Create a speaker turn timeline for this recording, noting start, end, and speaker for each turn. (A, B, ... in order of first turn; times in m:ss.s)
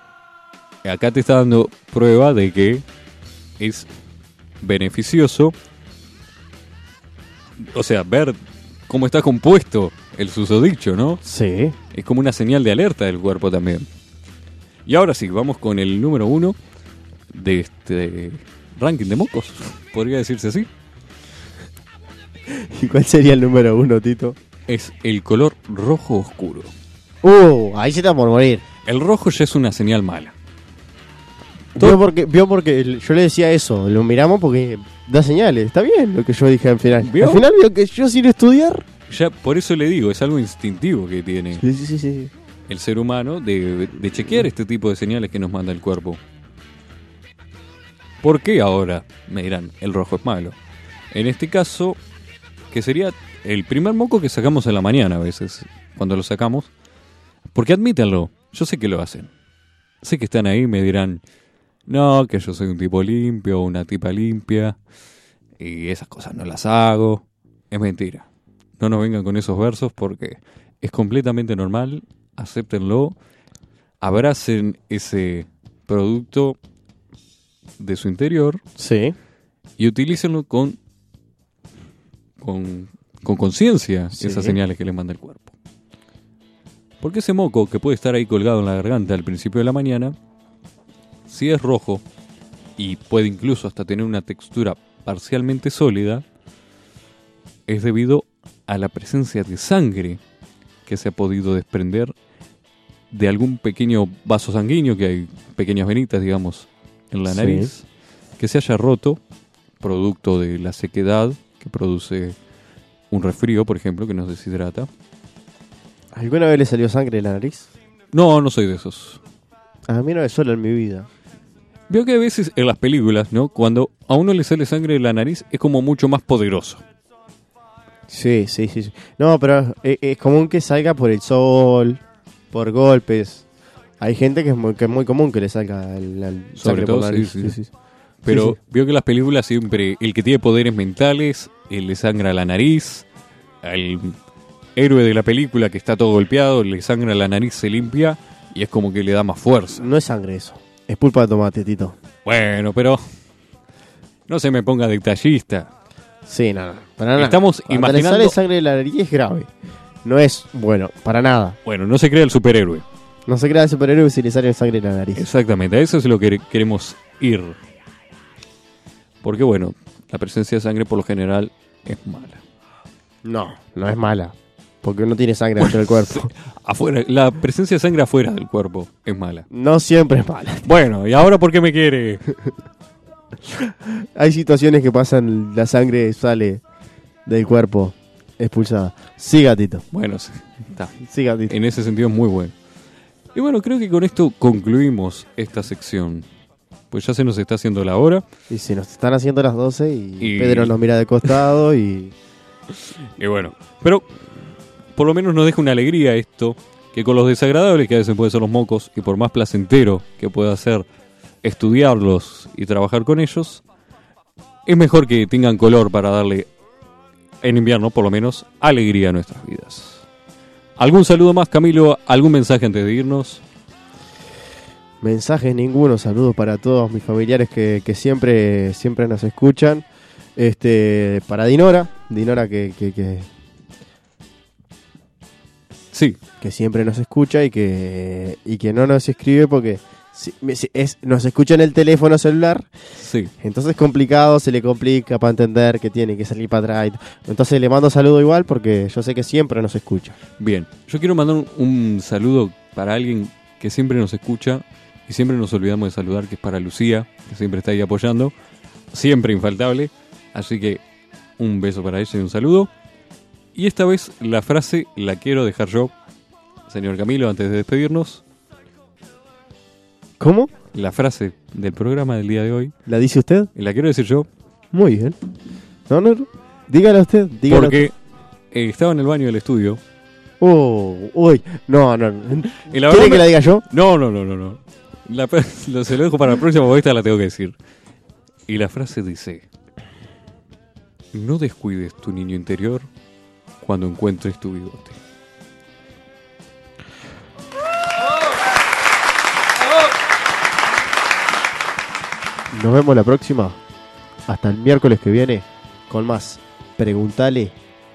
0:00.8-0:02.8 A
0:03.6-0:03.9 A
0:04.6-0:05.6 A
0:07.6-0:11.2 A
0:11.2-0:11.8 B
0:11.9-0:13.9 A
0:14.8-0:16.6 A
0:17.3-0:20.7 A
0:22.5-0:24.4 B
0:24.7-0:26.7 A
0:27.2-0:28.6 B
0:28.8-0:30.3 A
0:31.8-0:38.9 B
0:37.0-0:37.4 A
0:39.1-0:41.6 A
0:41.5-0:42.3 B
0:42.7-0:46.2 A
0:48.2-0:50.6 A
0:51.1-0:52.0 A
0:52.7-0:56.7 A
0:57.5-0:59.3 A
1:00.0-1:01.2 A
1:01.9-1:04.8 A
1:05.6-1:08.2 A
1:08.8-1:13.2 A
1:14.0-1:16.6 A
1:17.8-1:18.6 A
1:18.8-1:19.1 B
1:19.8-1:20.8 A
1:22.4-1:25.5 A
1:24.1-1:24.6 B
1:27.0-1:30.1 A
1:31.3-1:32.0 A
1:32.8-1:36.2 A
1:37.7-1:40.2 A
1:40.8-1:42.1 A
1:43.1-1:47.8 A
1:47.3-1:47.7 B
1:48.4-1:49.2 A
1:49.8-1:52.4 A
1:53.1-1:54.9 A
1:56.1-1:57.7 B
1:58.1-1:59.2 A
1:59.9-2:01.1 B
2:01.9-2:06.8 A
2:08.1-2:12.0 B
2:12.5-2:13.4 B
2:14.0-2:17.7 B
2:16.6-2:17.6 A
2:18.2-2:23.0 A
2:18.3-2:18.6 B
2:23.6-2:24.2 A
2:24.8-2:29.9 A
2:29.7-2:32.0 B
2:32.2-2:33.0 A
2:34.3-2:35.7 A
2:36.2-2:39.5 B
2:37.2-2:38.4 A
2:40.0-2:41.6 B
2:41.6-2:42.8 A
2:43.3-2:45.2 B
2:45.2-2:47.6 A
2:49.2-2:52.4 A
2:53.2-2:56.3 B
2:55.6-2:59.4 A
2:59.5-3:00.6 B
3:00.6-3:02.2 A
3:03.5-3:06.6 B
3:07.2-3:09.8 B
3:09.9-3:12.5 A
3:11.1-3:11.5 B
3:13.3-3:16.3 A
3:16.9-3:18.2 A
3:18.5-3:22.1 B
3:20.2-3:21.4 A
3:22.7-3:24.1 A
3:24.9-3:30.9 A
3:31.4-3:33.6 A
3:34.6-3:36.5 A
3:37.4-3:40.0 A
3:40.8-3:43.4 A
3:45.0-3:49.8 B
3:50.4-3:53.3 B
3:55.9-3:56.2 A
3:56.4-4:02.7 B
4:03.0-4:03.3 A
4:03.4-4:10.2 B
4:10.4-4:18.3 A
4:18.9-4:20.8 A
4:21.4-4:22.7 A
4:23.5-4:25.9 A
4:26.7-4:28.2 A
4:30.2-4:30.5 B
4:30.7-4:32.7 A
4:32.9-4:33.5 B
4:33.5-4:34.3 A
4:34.7-4:35.2 B
4:35.9-4:37.9 B
4:37.5-4:37.9 A
4:38.5-4:39.8 A
4:40.4-4:43.6 B
4:42.7-4:47.6 A
4:48.5-4:49.5 A
4:51.1-4:52.9 A
4:53.6-4:55.0 A
5:02.5-5:03.6 B
5:04.3-5:07.6 B